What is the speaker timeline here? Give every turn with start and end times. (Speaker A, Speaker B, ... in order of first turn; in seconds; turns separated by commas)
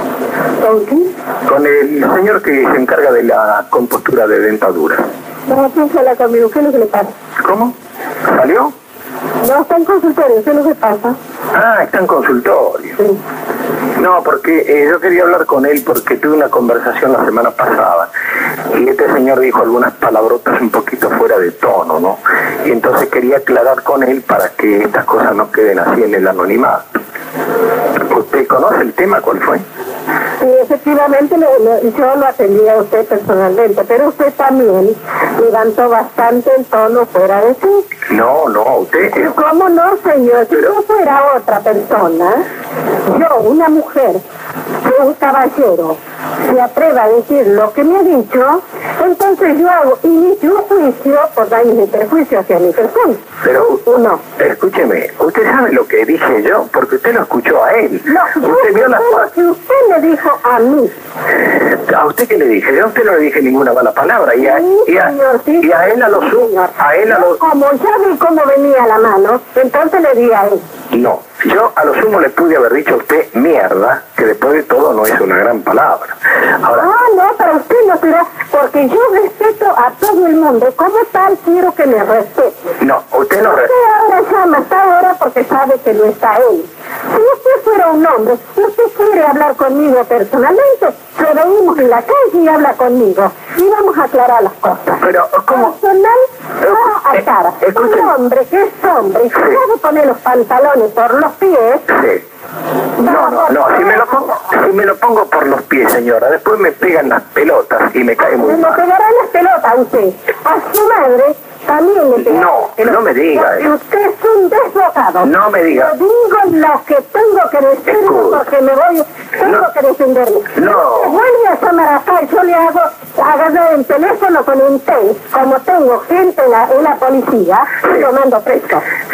Speaker A: 0.6-1.1, Speaker B: 1.5-5.0, Speaker A: 5.5-7.1, Speaker B: 7.4-7.7, Speaker B: 8.3-8.7, Speaker A: 9.4-11.2, Speaker B: 11.5-13.0, Speaker B: 14.0-18.1, Speaker B: 18.7-26.8, Speaker B: 28.1-29.6, Speaker A: 30.4-37.8, Speaker B: 38.1-39.3, Speaker A: 39.1-42.4, Speaker A: 43.0-44.2, Speaker A: 44.8-54.2, Speaker B: 53.4-53.8, Speaker B: 54.4-59.3, Speaker A: 58.0-60.9, Speaker B: 61.5-67.4, Speaker A: 64.4-70.6, Speaker B: 70.9-76.9, Speaker A: 76.8-82.5, Speaker B: 82.8-83.7, Speaker A: 83.4-101.8, Speaker B: 95.0-95.7, Speaker B: 97.6-98.1, Speaker B: 99.3-99.6, Speaker B: 101.9-102.2, Speaker A: 103.0-104.3, Speaker B: 103.0-108.8, Speaker A: 108.2-128.8, Speaker B: 112.2-113.6, Speaker B: 115.2-115.9, Speaker B: 117.9-118.4, Speaker B: 120.5-121.2